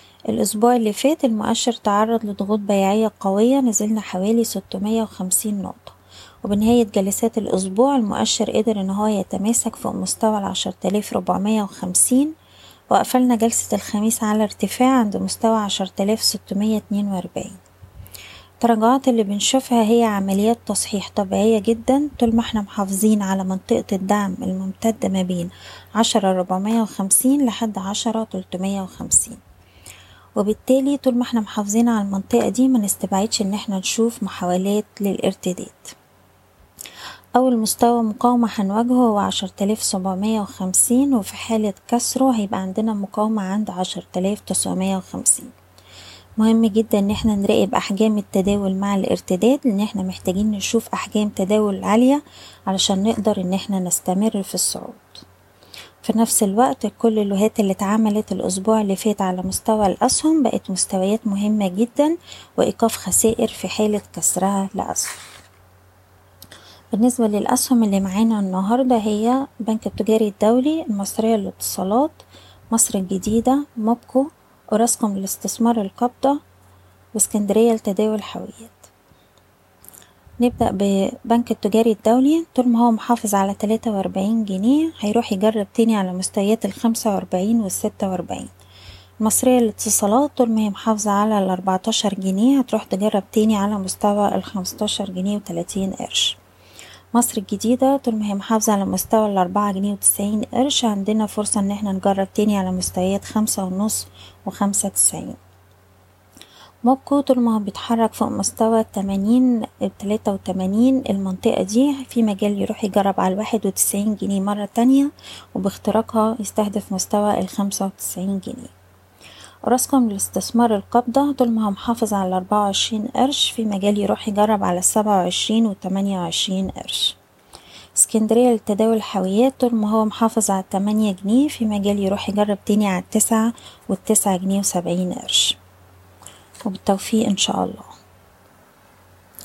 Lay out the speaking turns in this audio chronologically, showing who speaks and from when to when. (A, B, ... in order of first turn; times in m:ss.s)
0:00.3-0:12.3 A
0:12.9-0:17.6 A
0:18.6-0:29.4 A
0:30.4-0:35.9 A
0:37.4-0:45.5 A
0:46.4-0:55.2 A
0:56.0-1:05.2 A
1:06.9-1:16.4 A
1:17.2-1:18.9 A
1:20.4-1:28.5 A
1:29.2-1:36.4 A
1:37.1-1:45.4 A
1:46.8-1:58.7 A
1:59.7-2:07.2 A
2:08.0-2:15.6 A
2:16.7-2:17.9 A